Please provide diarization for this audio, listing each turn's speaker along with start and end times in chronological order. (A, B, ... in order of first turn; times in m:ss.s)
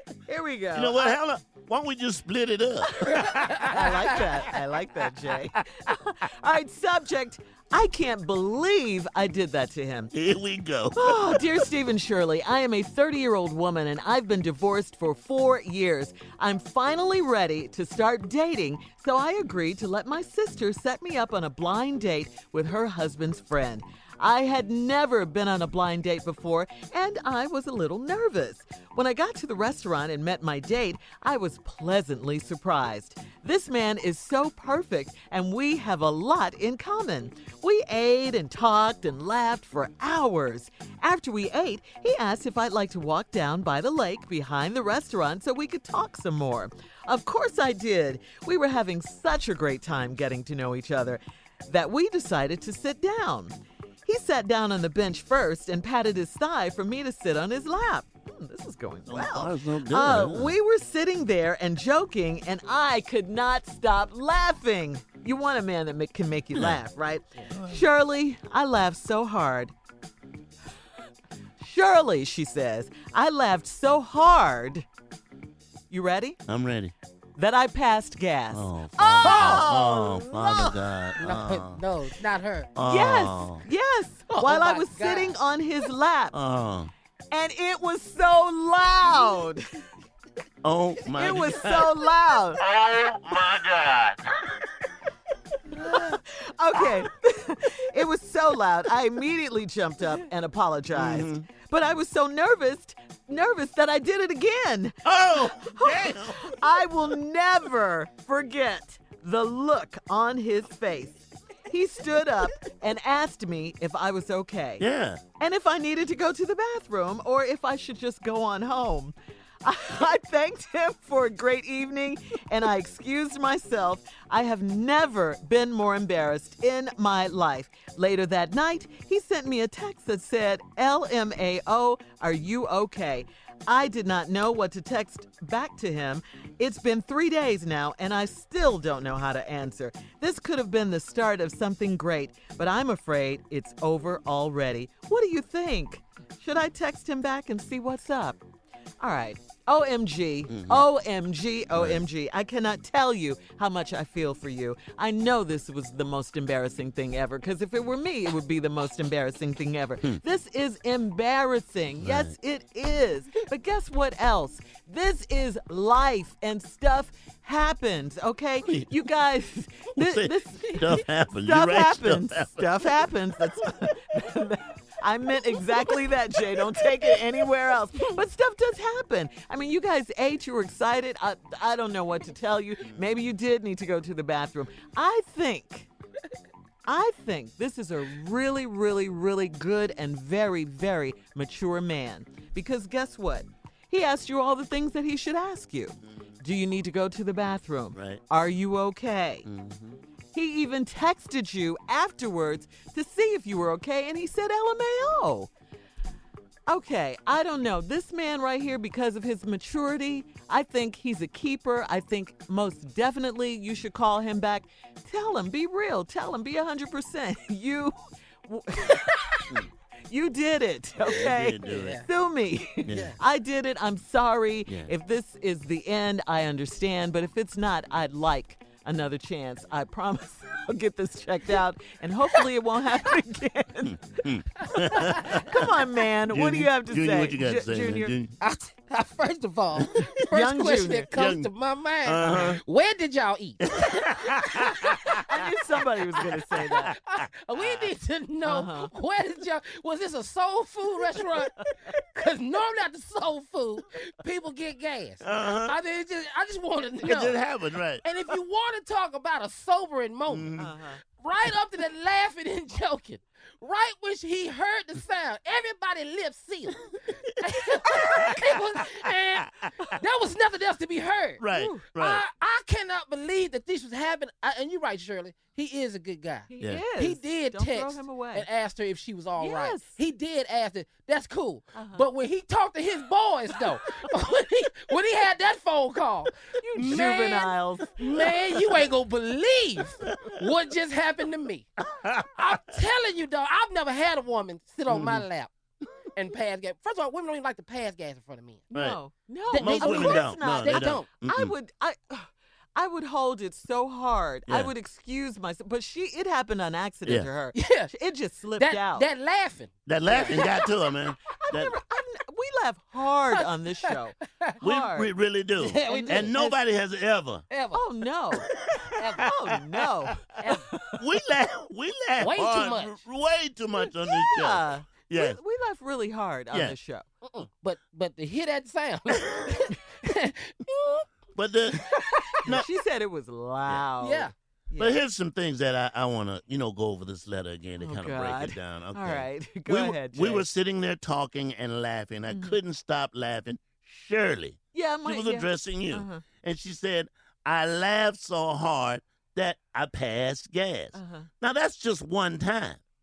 0:00.3-0:01.1 A
0:00.7-0:03.7 B
0:02.9-0:10.1 A
0:03.1-0:04.3 C
0:10.1-0:11.4 B
0:11.0-0:53.5 A
0:54.1-1:09.7 A
0:59.1-1:00.6 B
1:06.5-1:06.8 B
1:07.5-1:07.8 B
1:11.6-1:14.9 A
1:15.9-1:16.4 A
1:16.5-1:16.9 B
1:17.4-1:20.8 A
1:18.5-1:21.8 B
1:19.2-1:19.7 C
1:21.2-1:22.7 C
1:22.8-1:23.6 B
1:22.8-1:26.4 A
1:24.3-1:25.4 C
1:26.3-1:26.9 B
1:27.3-1:29.6 A
1:30.6-1:32.0 B
1:31.1-1:32.6 A
1:32.6-1:34.2 B
1:35.7-1:54.8 A
1:41.0-1:41.5 B
1:45.0-1:46.5 B
1:54.8-1:55.2 B
1:55.4-2:28.4 A
2:29.0-3:05.9 A
2:30.5-2:30.8 B
2:31.7-2:32.0 B
2:42.0-2:42.3 B
2:48.6-2:48.9 B
2:50.0-2:52.7 B
3:06.9-3:19.5 A
3:17.9-3:18.2 B
3:19.5-3:20.0 B
3:20.3-3:25.5 A
3:26.7-3:58.2 A
3:41.0-3:42.0 B
3:41.6-3:42.0 C
3:42.8-3:43.1 B
3:42.9-3:43.2 C
3:53.9-3:55.7 B
3:56.3-3:58.4 B
3:58.4-4:05.2 C
3:59.8-4:00.1 B
4:00.3-4:01.0 A
4:00.8-4:01.5 B
4:02.0-4:02.6 B
4:02.2-4:02.6 A
4:03.7-4:05.2 B
4:05.2-4:06.9 A
4:06.2-4:06.8 B
4:06.6-4:17.4 C
4:07.6-4:07.9 B
4:08.4-4:08.9 A
4:15.2-4:15.8 B
4:17.0-4:18.0 B
4:18.0-4:26.8 C
4:20.3-4:20.7 B
4:20.6-4:21.0 A
4:27.4-4:31.4 C
4:28.0-4:28.6 B
4:29.4-4:29.7 B
4:31.4-4:32.2 B
4:31.5-4:31.9 A
4:32.0-4:51.7 C
4:36.5-4:38.5 A
4:39.4-4:40.0 A
4:41.8-4:42.1 A
4:46.6-4:47.9 A
4:46.8-4:47.1 B
4:48.0-4:48.9 B
4:50.1-4:50.3 B
4:52.0-4:52.6 B
4:52.4-4:55.5 C
4:54.9-4:55.2 B
4:56.1-4:58.7 C
4:58.7-5:09.1 A
4:58.7-4:59.0 B
4:59.5-5:01.1 C
4:59.5-5:01.5 B
5:07.5-5:07.9 C
5:08.6-5:10.5 C
5:09.9-5:11.8 B
5:10.3-5:10.6 A
5:11.3-5:15.1 A
5:13.9-5:14.5 C
5:14.6-5:17.4 B
5:15.6-5:16.6 C
5:15.9-5:16.4 A
5:17.5-5:17.8 C
5:17.7-5:18.5 A
5:19.0-5:19.3 C
5:19.2-5:21.0 A
5:20.4-5:20.7 C
5:21.0-5:25.4 B
5:22.2-5:23.0 C
5:23.7-5:27.0 A
5:27.2-5:31.1 C
5:31.4-5:31.9 B
5:32.4-5:35.0 A
5:34.0-5:34.3 C
5:34.8-5:52.8 B
5:37.8-5:40.4 A
5:42.3-5:42.6 A
5:44.7-5:46.2 A
5:50.9-5:51.3 A